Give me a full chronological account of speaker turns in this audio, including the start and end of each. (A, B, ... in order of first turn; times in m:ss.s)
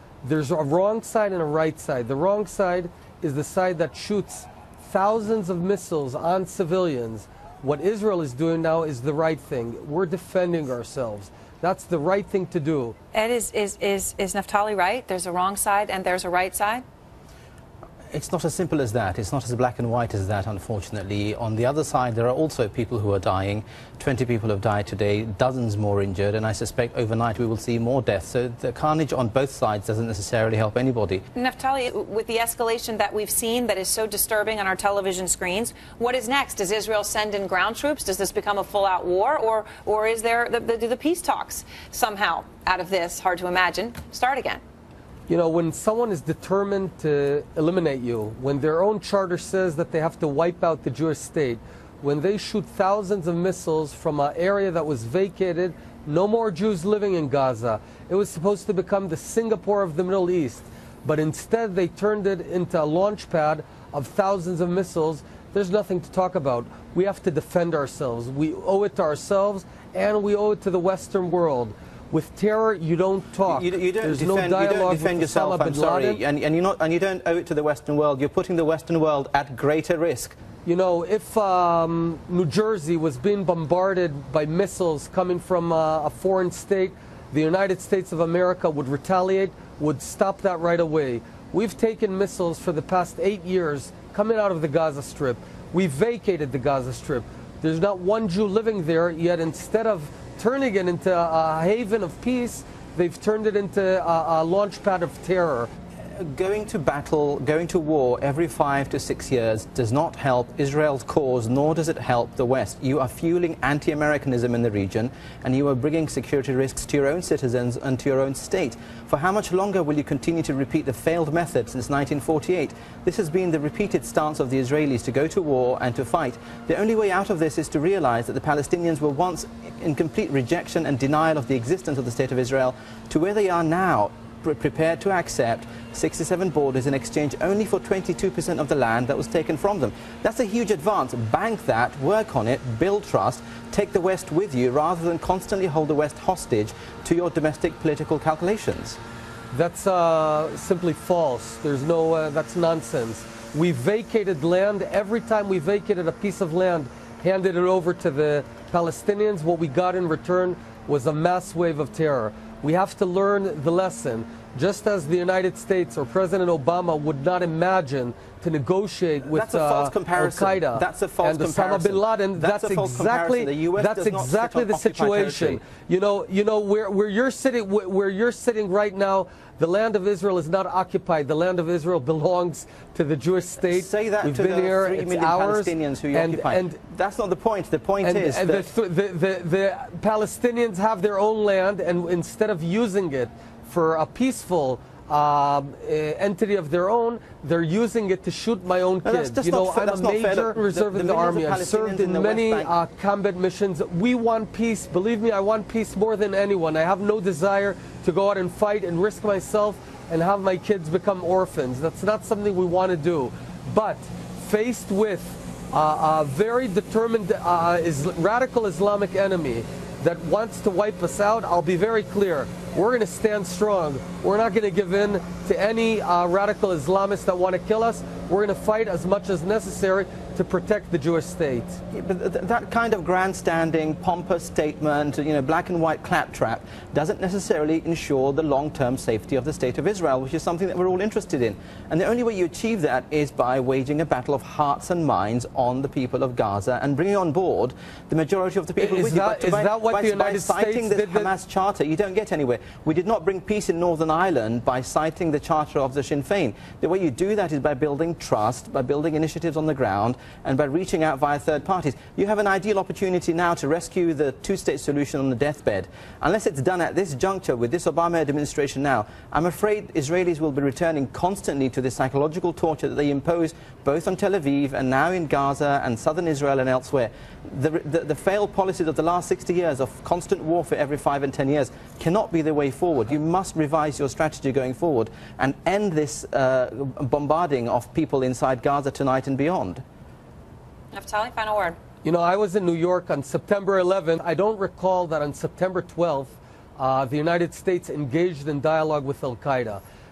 0:00.2-0:13.0 A
0:13.1-0:16.8 B
0:18.1-0:31.2 C
0:31.4-0:44.6 B
0:45.3-1:16.2 A
1:13.4-1:20.4 C
1:20.6-1:45.7 A
1:46.2-2:29.0 C
2:29.5-3:06.8 A
2:49.2-2:55.6 C
3:03.6-3:08.7 C
3:08.0-3:51.8 A
3:19.0-3:22.7 C
3:51.9-4:49.8 C
4:08.8-4:11.3 A
4:50.9-4:51.8 B
4:52.0-4:59.8 A